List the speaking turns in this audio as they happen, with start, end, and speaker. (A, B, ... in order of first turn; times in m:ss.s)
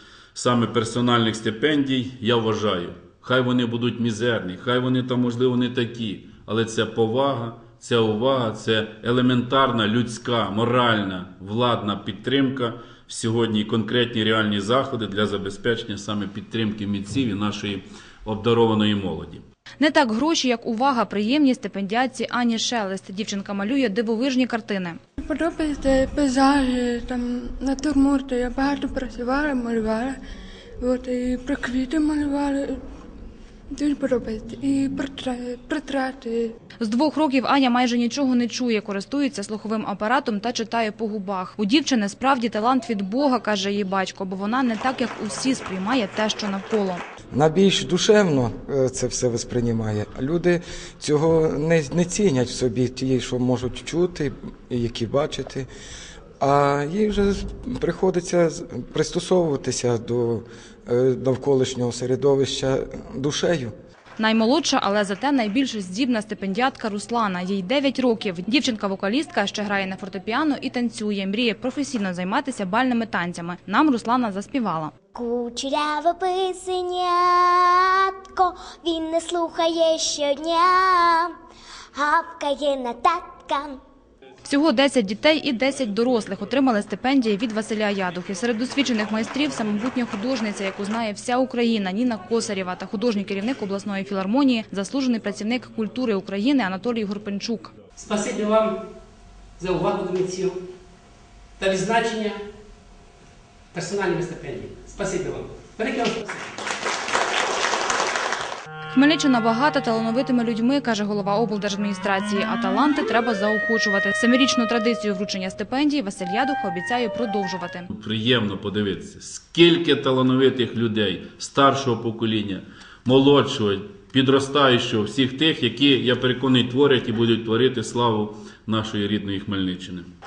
0:00.3-0:19.4 A
0:19.8-0:25.0 B
0:25.2-0:30.2 C
0:30.8-0:32.8 C
0:33.7-0:36.5 C
0:36.8-0:47.0 B
0:47.3-0:55.7 D
0:56.4-1:03.7 D
1:04.2-1:14.9 B
1:15.1-1:21.3 E
1:21.9-1:23.7 E
1:24.4-1:37.7 B
1:38.0-1:38.8 F
1:39.6-1:40.6 F
1:41.6-1:42.4 F
1:43.7-1:46.5 F
1:48.9-1:57.9 B
1:57.9-2:10.1 A